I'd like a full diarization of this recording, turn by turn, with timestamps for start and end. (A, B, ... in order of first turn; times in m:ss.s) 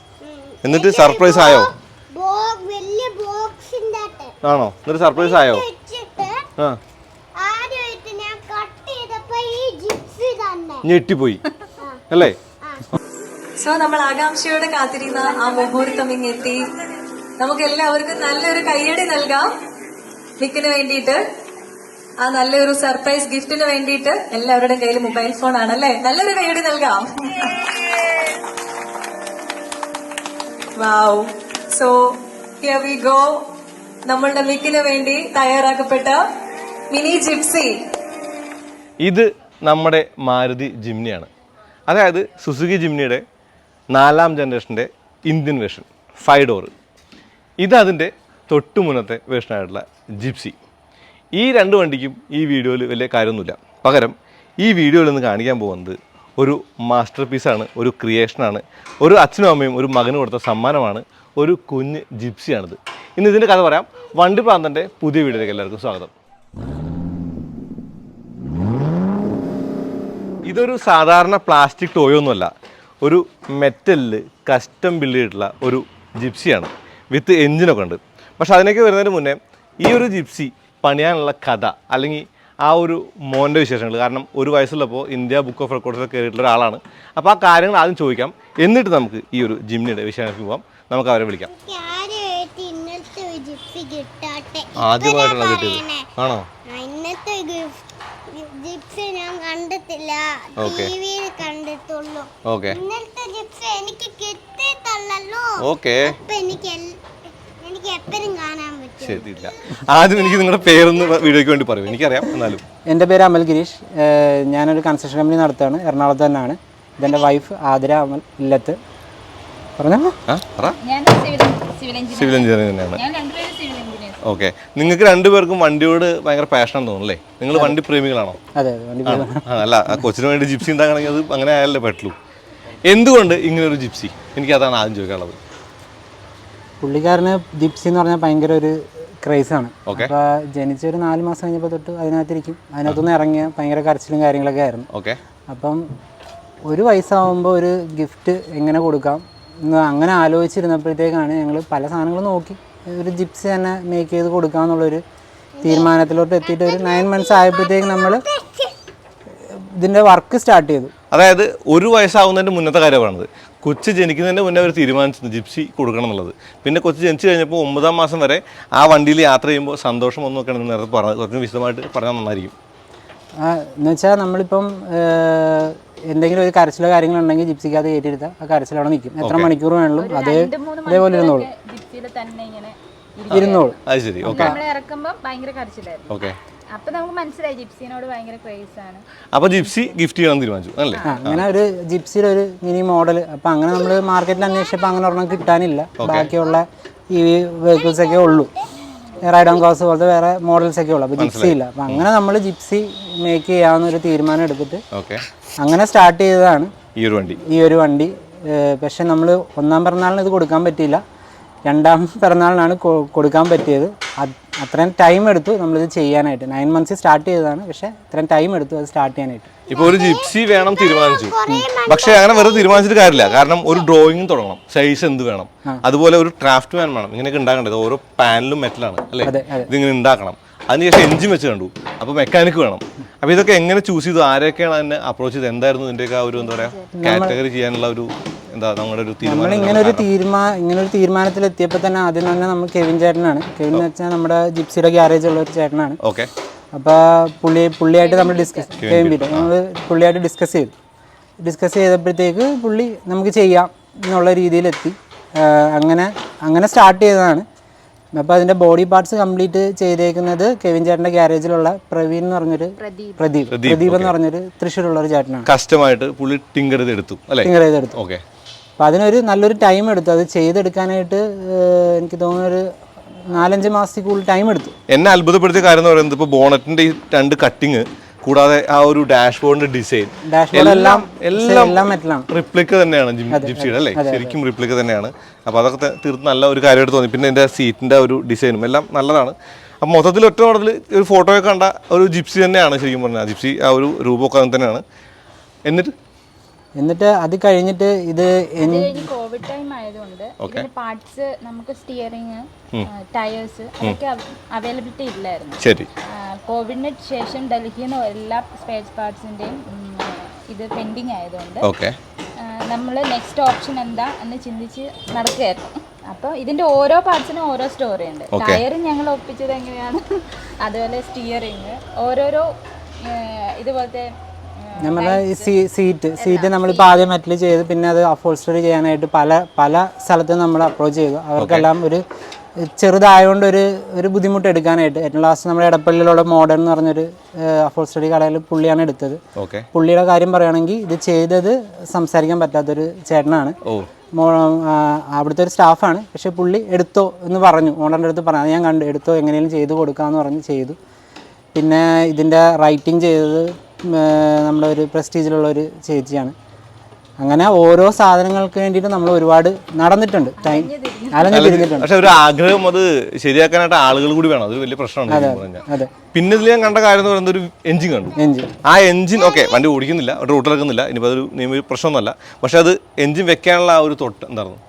0:00.2-0:04.3 A
0:00.6-0:01.7 B
0:04.4-0:05.6 B
0:05.1-0:06.5 A
0:07.4-0:10.8 A
0:10.8-0:11.4 B
0:12.1-0:12.4 B
0:12.6-0:12.9 A
0:13.6-0:16.7 C
0:17.4-0:19.5 C
0:20.4-0:21.2 C
0:22.2-0:27.6 C
0:30.8-0:32.0 C
0:32.6-0:33.4 C
0:34.1-0:36.2 C
0:36.9-0:37.7 C
0:39.0-0:41.3 B
0:41.9-0:43.2 B
0:43.9-0:46.7 B
0:47.6-0:50.6 B
0:51.3-1:06.1 B
1:10.5-1:12.5 B
1:13.0-1:31.5 B
1:31.5-1:36.1 A
1:34.8-1:36.5 B
1:36.7-1:46.9 A
1:40.6-1:40.9 B
1:42.5-1:42.8 B
1:45.6-1:46.2 B
1:47.4-1:49.8 A
1:49.0-1:52.6 B
1:52.9-1:58.8 D
1:57.0-1:57.3 A
1:59.8-2:00.2 D
2:00.3-2:00.8 B
2:00.8-2:04.2 E
2:02.1-2:03.0 B
2:04.2-2:08.4 B
2:08.6-2:09.4 D
2:09.0-2:12.2 B
2:12.9-2:15.4 B
2:16.8-2:24.9 D
2:19.9-2:20.1 B
2:24.9-2:25.2 B
2:25.5-2:25.8 D
2:26.7-2:35.0 D
2:35.6-2:38.8 A
2:35.6-2:38.3 D
2:39.8-2:40.9 D
2:41.1-2:52.5 B
2:53.4-3:01.5 D
2:59.2-2:59.5 B
3:00.0-3:06.1 E
3:03.3-3:04.6 B
3:03.3-3:04.6 D
3:06.1-3:06.4 B
3:06.7-3:09.0 E
3:09.3-3:11.5 B
3:11.0-3:18.5 D
3:13.8-3:15.4 A
3:16.0-3:16.3 B
3:17.7-3:18.7 A
3:19.3-3:24.8 D
3:21.2-3:22.1 B
3:24.9-3:25.2 B
3:25.6-3:26.7 D
3:27.0-3:27.4 B
3:27.4-3:31.0 D
3:31.7-3:39.5 D
3:39.7-3:43.9 A
3:39.7-4:00.1 B
3:49.2-3:49.7 D
3:56.5-3:56.9 E
3:57.0-3:57.4 D
3:59.2-4:06.0 D
4:06.0-4:06.3 B
4:06.7-4:10.7 D
4:08.0-4:08.8 E
4:08.8-4:09.5 B
4:11.4-4:17.5 D
4:18.2-4:25.5 D
4:22.8-4:23.2 E
4:23.5-4:24.2 B
4:25.4-4:28.2 B
4:27.4-4:28.0 D
4:28.8-4:32.6 D
4:33.3-4:34.8 D
4:34.9-4:54.8 B
4:40.3-4:42.3 D
4:43.3-4:44.4 D
4:55.7-4:56.0 B
4:56.8-4:59.1 D
4:58.6-5:05.6 E
5:00.4-5:00.7 B
5:05.6-5:05.9 B
5:06.1-5:11.7 E
5:11.6-5:12.0 B
5:12.4-5:22.5 E
5:18.3-5:18.6 B
5:23.0-5:25.5 E
5:24.8-5:32.0 D
5:26.2-5:27.0 E
5:31.4-5:31.7 B
5:32.6-5:39.2 D
5:39.4-5:39.7 B
5:39.7-5:43.6 D
5:44.2-5:50.8 D
5:51.5-5:56.4 D
5:57.2-6:01.9 D
6:00.4-6:01.4 E
6:01.3-6:14.6 B
6:05.1-6:05.9 D
6:08.2-6:08.5 D
6:09.2-6:09.6 A